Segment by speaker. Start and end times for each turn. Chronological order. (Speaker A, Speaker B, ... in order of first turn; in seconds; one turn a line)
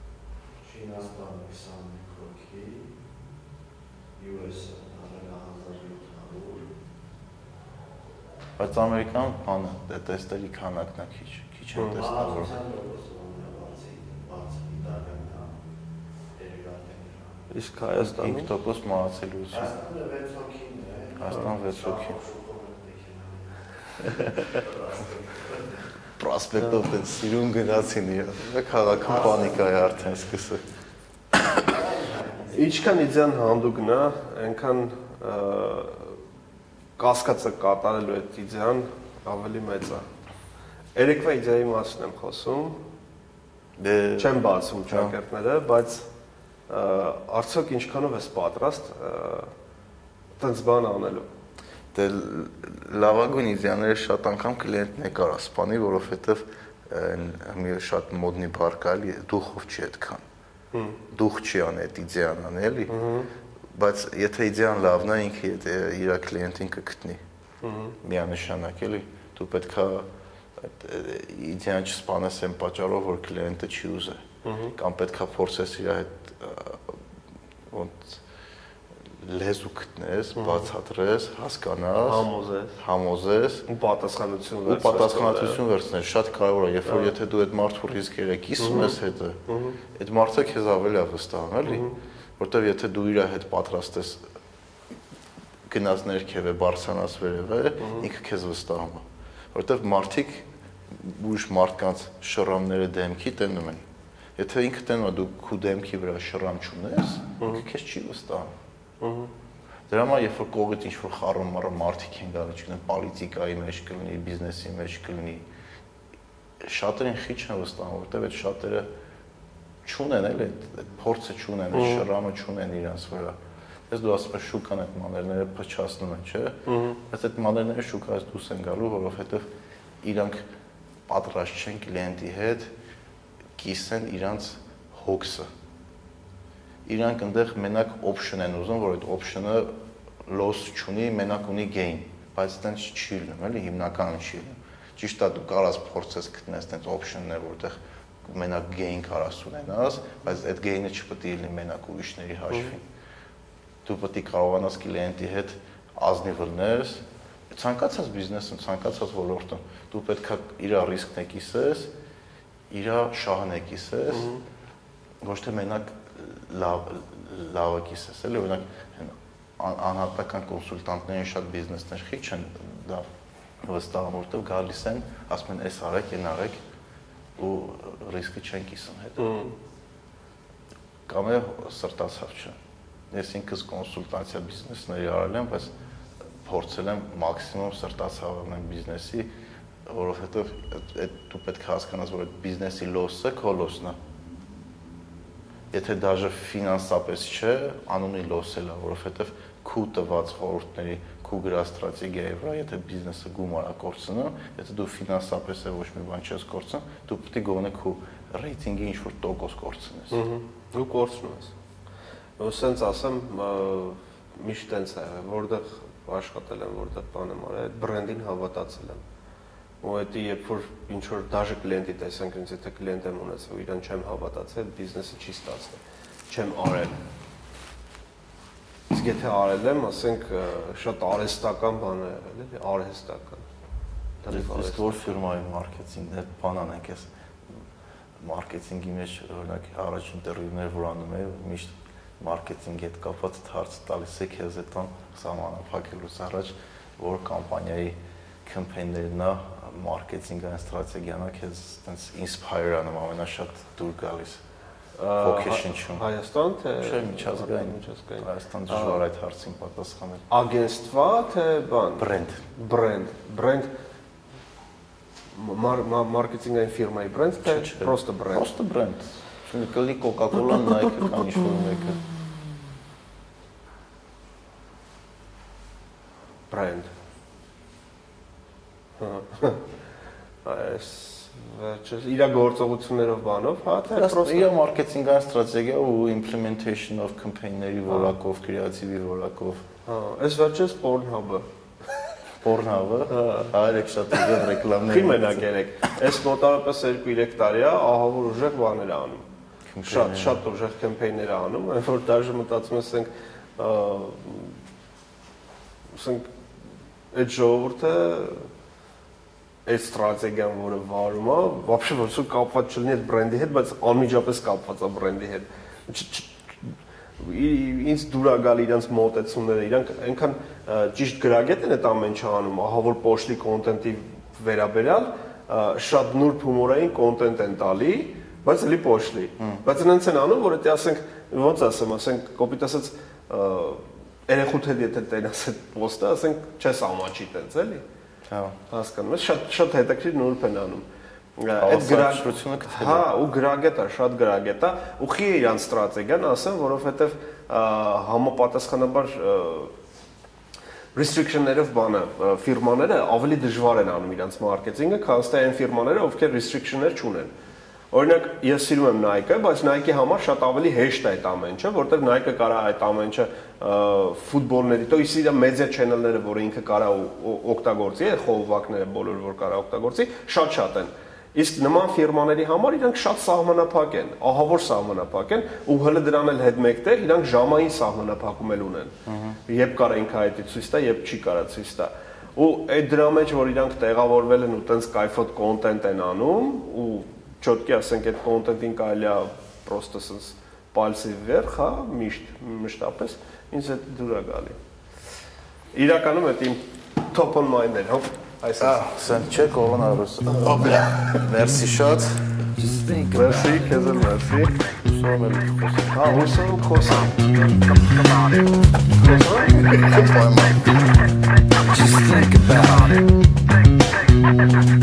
Speaker A: 0.6-2.9
Speaker A: 4.2-6.7
Speaker B: 8.6-12.6
Speaker A: 11.9-15.6
Speaker A: 16.3-17.5
Speaker C: 17.5-18.5
Speaker B: 18.0-19.7
Speaker A: 19.5-25.8
Speaker B: 21.2-22.2
Speaker B: 26.2-30.6
Speaker A: 28.9-30.3
Speaker A: 31.6-32.9
Speaker C: 32.5-36.2
Speaker C: 37.0-40.1
Speaker C: 41.0-42.8
Speaker B: 43.8-45.1
Speaker C: 44.2-46.1
Speaker C: 46.7-49.5
Speaker C: 50.4-51.2
Speaker B: 51.9-60.2
Speaker C: 60.7-61.0
Speaker B: 61.1-63.0
Speaker C: 62.9-63.3
Speaker B: 63.7-67.2
Speaker C: 67.6-68.0
Speaker B: 68.0-74.2
Speaker C: 74.4-74.7
Speaker B: 74.8-77.0
Speaker B: 77.7-78.2
Speaker B: 79.2-83.7
Speaker C: 80.4-80.7
Speaker C: 82.0-82.8
Speaker C: 83.7-85.6
Speaker B: 84.7-89.4
Speaker C: 86.9-87.1
Speaker C: 88.6-89.0
Speaker C: 89.5-89.8
Speaker B: 90.0-94.2
Speaker C: 91.7-92.0
Speaker B: 95.7-103.8
Speaker C: 97.8-98.0
Speaker B: 104.4-108.5
Speaker C: 109.0-109.3
Speaker B: 109.9-115.5
Speaker B: 116.6-118.9
Speaker B: 119.8-123.4
Speaker C: 121.7-122.0
Speaker B: 123.9-129.5
Speaker C: 126.7-127.0
Speaker B: 130.0-130.4
Speaker B: 131.1-132.7
Speaker B: 133.6-135.5
Speaker B: 136.8-139.7
Speaker B: 140.3-152.8
Speaker B: 153.8-161.9
Speaker B: 162.7-164.3
Speaker C: 164.1-164.4
Speaker B: 165.2-173.1
Speaker B: 173.6-176.6
Speaker B: 177.4-179.4
Speaker C: 179.2-179.5
Speaker B: 181.1-182.6
Speaker B: 183.1-185.7
Speaker B: 186.4-189.3
Speaker B: 189.9-194.0
Speaker B: 195.7-210.2
Speaker C: 210.1-211.5
Speaker C: 212.4-219.0
Speaker C: 219.8-227.0
Speaker C: 228.9-233.4
Speaker C: 234.2-235.1
Speaker B: 234.3-237.1
Speaker B: 238.2-254.4
Speaker C: 255.0-259.0
Speaker B: 255.2-256.0
Speaker B: 256.8-260.2
Speaker C: 260.3-263.7
Speaker B: 262.0-262.4
Speaker C: 265.3-268.5
Speaker B: 267.4-272.1
Speaker C: 276.5-276.9
Speaker C: 279.0-279.6
Speaker C: 280.4-284.5
Speaker B: 283.9-289.6
Speaker C: 289.9-291.5
Speaker B: 292.4-295.5
Speaker C: 293.1-293.5
Speaker C: 294.1-299.2
Speaker B: 299.7-300.4
Speaker C: 299.9-304.6
Speaker C: 305.9-306.3
Speaker C: 307.1-308.5
Speaker C: 309.7-337.8
Speaker B: 338.3-338.6
Speaker C: 338.7-340.9
Speaker C: 341.4-349.7
Speaker B: 341.6-343.1
Speaker C: 350.9-357.3
Speaker C: 357.9-378.9
Speaker B: 379.1-379.4
Speaker C: 379.5-394.6
Speaker C: 395.7-398.9
Speaker B: 398.6-402.2
Speaker C: 400.3-400.7
Speaker D: 402.6-404.1
Speaker C: 403.1-404.6
Speaker B: 404.6-406.4
Speaker C: 405.9-407.6
Speaker C: 409.0-410.1
Speaker B: 409.6-410.9
Speaker D: 411.7-413.1